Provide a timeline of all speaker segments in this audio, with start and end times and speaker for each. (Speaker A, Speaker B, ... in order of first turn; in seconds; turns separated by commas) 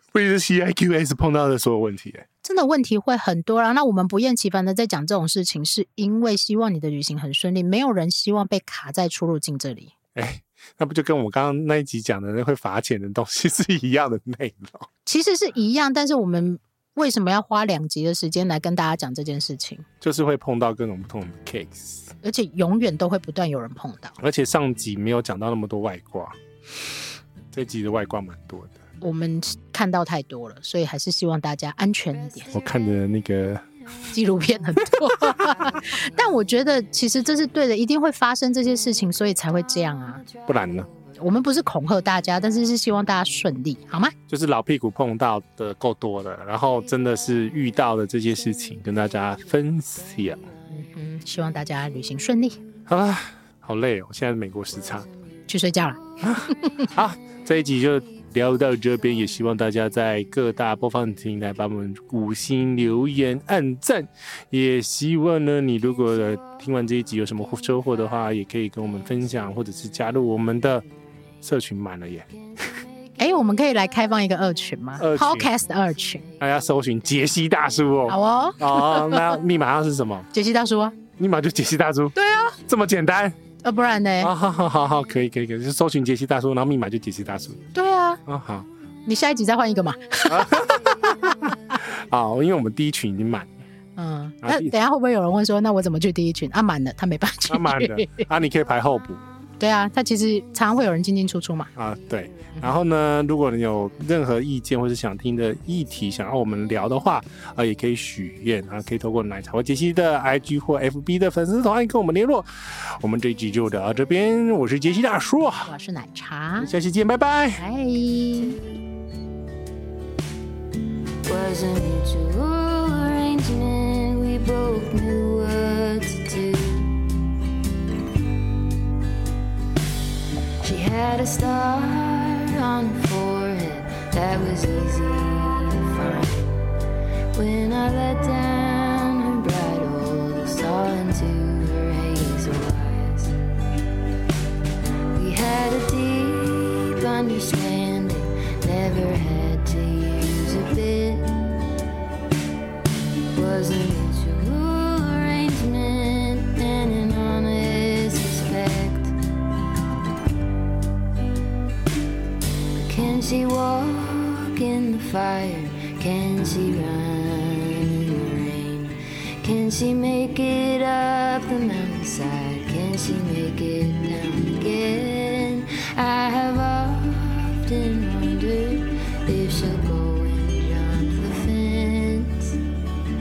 Speaker A: 0.1-2.2, Speaker B: 2.4-9.9, Speaker A: 10.2-14.9, Speaker B: 15.1-19.9, Speaker A: 20.0-22.1, Speaker B: 22.2-24.2, Speaker A: 24.2-26.4, Speaker A: 27.5-28.8, Speaker B: 29.0-32.5, Speaker C: 32.4-32.7, Speaker A: 32.5-33.6, Speaker B: 34.1-40.2, Speaker C: 40.2-41.2, Speaker A: 40.5-40.9, Speaker B: 41.2-44.1, Speaker A: 44.3-50.4, Speaker B: 50.7-52.6, Speaker A: 52.9-55.1, Speaker B: 55.5-56.9, Speaker A: 56.2-70.8, Speaker C: 67.6-67.9, Speaker A: 71.4-72.3, Speaker C: 72.6-73.6, Speaker B: 73.2-76.2, Speaker A: 75.0-75.5, Speaker A: 76.4-80.3, Speaker B: 78.1-79.4, Speaker B: 80.3-81.0, Speaker A: 81.2-83.4, Speaker B: 82.2-82.6, Speaker B: 83.6-84.3, Speaker A: 84.2-87.6, Speaker B: 87.7-88.2, Speaker A: 88.3-88.7, Speaker B: 89.1-91.5, Speaker A: 90.3-90.9, Speaker A: 91.8-93.5, Speaker B: 94.0-98.3, Speaker A: 94.4-94.7, Speaker A: 97.5-99.2, Speaker B: 99.6-101.7, Speaker A: 101.8-115.7, Speaker B: 115.7-116.7, Speaker A: 116.6-117.6, Speaker B: 117.6-118.6, Speaker C: 121.2-127.0, Speaker C: 130.6-136.6, Speaker C: 137.3-143.3, Speaker C: 145.1-151.3, Speaker C: 153.3-159.2, Speaker C: 162.8-182.6